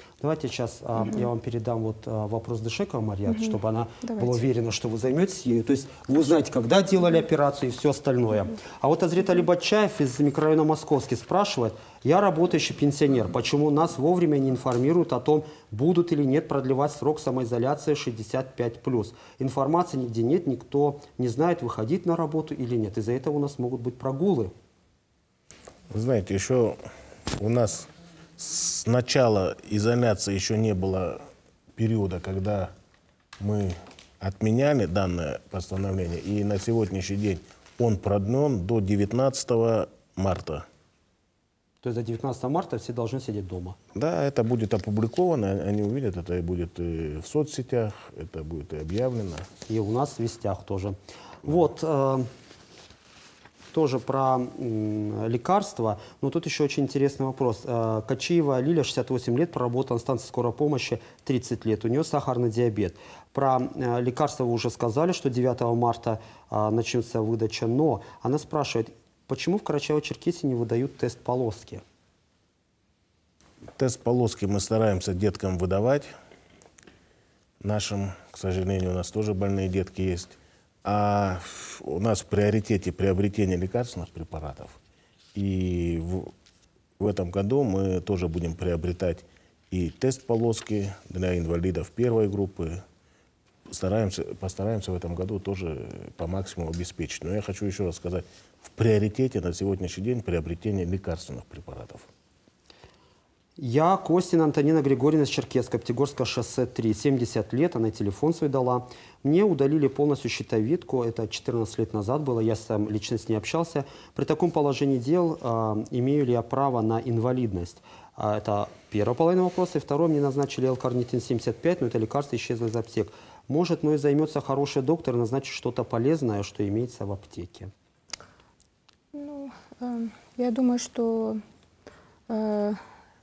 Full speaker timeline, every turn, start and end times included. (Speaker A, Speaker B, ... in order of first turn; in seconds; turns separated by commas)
Speaker A: 0.2-24.5, Speaker B: 1.0-1.3, Speaker B: 3.3-4.5, Speaker C: 25.9-26.8, Speaker C: 27.4-31.2, Speaker C: 31.8-32.7, Speaker C: 33.4-40.6, Speaker A: 41.8-43.8, Speaker C: 43.9-49.5, Speaker A: 49.7-52.3, Speaker A: 53.7-71.8, Speaker C: 73.8-76.1, Speaker C: 77.6-84.8, Speaker C: 85.3-86.3, Speaker C: 87.0-92.8, Speaker C: 93.7-102.1, Speaker A: 103.6-127.7, Speaker B: 129.1-131.4, Speaker B: 132.3-132.8